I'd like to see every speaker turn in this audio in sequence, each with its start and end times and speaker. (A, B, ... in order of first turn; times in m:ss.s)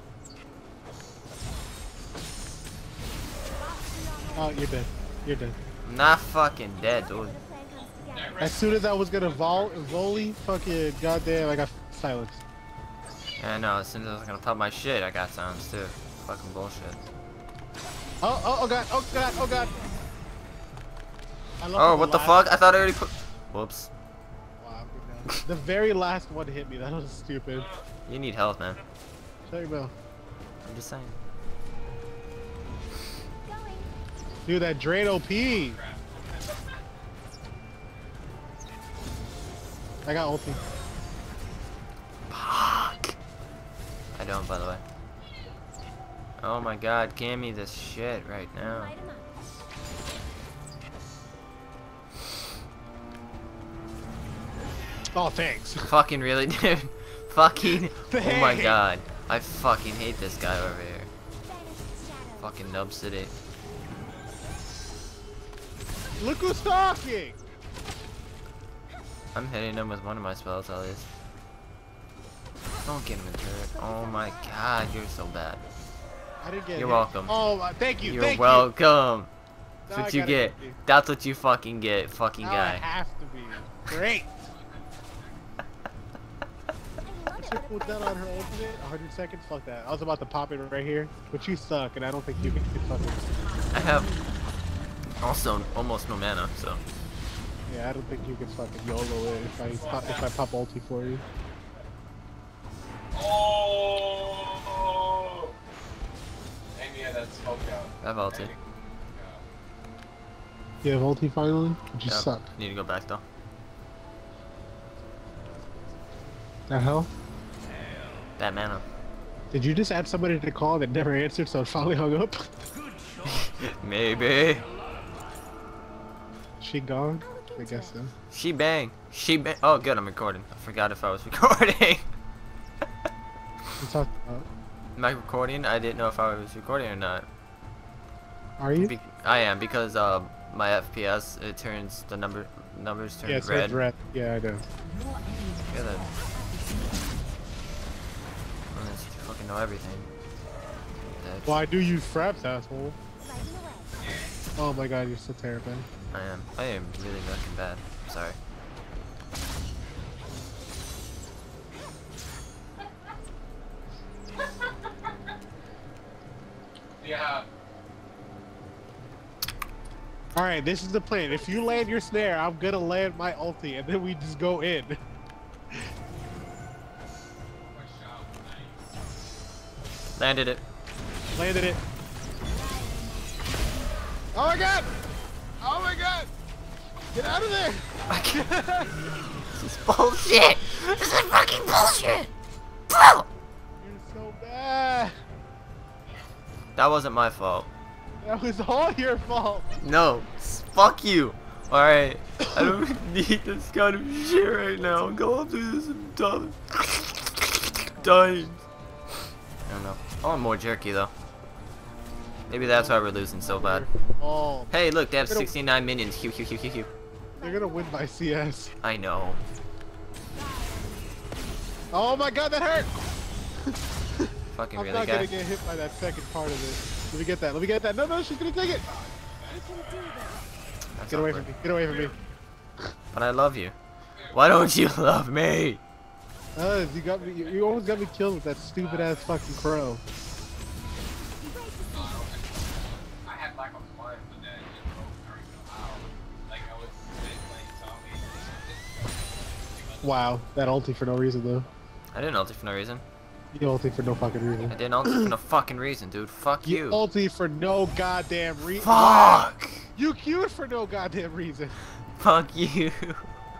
0:03.6-0:04.7 A
0:04.4-0:05.6 B
0:05.8-0:07.3 C
0:06.8-0:08.5 A
0:08.2-0:10.1 D
0:08.4-0:12.4 B
0:13.4-0:17.0 C
0:18.2-0:19.8 B
0:19.5-0:20.0 A
0:21.6-0:22.4 B
0:21.8-0:23.9 C
0:24.6-0:27.7 B
0:28.1-0:28.8 C
0:29.5-0:29.9 B
0:30.6-0:31.2 C
0:33.4-0:33.9 A
0:34.4-0:35.8 B
0:35.7-0:36.4 D
0:40.0-0:40.6 B
0:42.3-0:43.1 C
0:44.2-0:44.8 C
0:46.4-0:48.9 C
0:48.6-0:49.3 A
0:55.1-0:55.9 B
0:55.8-1:01.1 C
0:57.9-0:58.8 B
1:01.4-1:02.6 A
1:02.4-1:03.3 C
1:06.2-1:07.4 B
1:09.4-1:11.1 C
1:12.8-1:15.6 C
1:13.7-1:14.6 A
1:16.4-1:18.7 B
1:16.8-1:17.4 C
1:18.0-1:19.3 C
1:19.9-1:20.8 B
1:19.9-1:22.8 C
1:22.4-1:24.4 B
1:24.6-1:25.3 D
1:27.0-1:28.8 A
1:27.4-1:33.2 B
1:33.7-1:34.1 C
1:35.2-1:36.8 C
1:37.7-1:41.2 B
1:39.8-1:40.2 D
1:41.3-1:41.6 D
1:43.1-1:45.6 D
1:46.8-1:48.6 D
1:48.0-1:48.6 C
1:49.1-1:49.4 D
1:50.8-1:52.4 B
1:52.1-1:53.2 C
1:56.7-1:57.1 B
1:58.4-1:58.8 C
1:59.5-2:02.5 B
2:03.2-2:04.7 C
2:06.6-2:08.1 B
2:07.2-2:08.0 A
2:08.3-2:12.1 C
2:13.8-2:14.5 B
2:15.0-2:17.3 C
2:18.6-2:18.9 B
2:18.8-2:23.8 C
2:23.2-2:24.6 B
2:25.7-2:26.1 C
2:26.4-2:26.8 A
2:28.7-2:30.1 C
2:31.2-2:31.6 C
2:31.4-2:33.0 B
2:33.2-2:33.9 A
2:34.6-2:35.9 B
2:36.1-2:38.4 C
2:47.0-2:47.5 D
2:50.4-2:55.0 B
2:57.6-2:58.9 D
3:00.2-3:00.6 C
3:01.4-3:01.8 B
3:02.5-3:04.1 A
3:04.3-3:04.9 B
3:05.6-3:06.3 B
3:07.1-3:09.0 B
3:08.1-3:08.5 C
3:09.4-3:12.3 C
3:12.9-3:13.3 C
3:13.8-3:15.2 B
3:16.8-3:17.7 C
3:18.2-3:19.8 B
3:19.8-3:28.6 C
3:29.7-3:31.1 C
3:32.5-3:33.9 C
3:32.5-3:34.7 B
3:34.7-3:36.9 C
3:35.3-3:35.5 B
3:37.4-3:38.1 A
3:37.4-3:38.7 B
3:38.8-3:39.4 C
3:40.3-3:41.4 A
3:41.9-3:42.9 B
3:43.7-3:48.8 B
3:44.5-3:45.3 C
3:48.9-3:50.0 D
3:49.5-3:50.5 A
3:51.0-3:51.5 C
3:51.1-3:52.2 B
3:53.1-3:53.7 C
3:54.3-3:55.8 C
3:56.6-4:00.0 B
3:57.2-3:58.0 D
3:58.8-3:59.3 D
4:01.4-4:02.3 A
4:01.9-4:10.1 D
4:10.0-4:11.7 B
4:12.1-4:13.0 C
4:13.5-4:15.3 B
4:14.7-4:17.0 C
4:16.6-4:21.8 B
4:18.8-4:19.9 C
4:22.2-4:23.3 C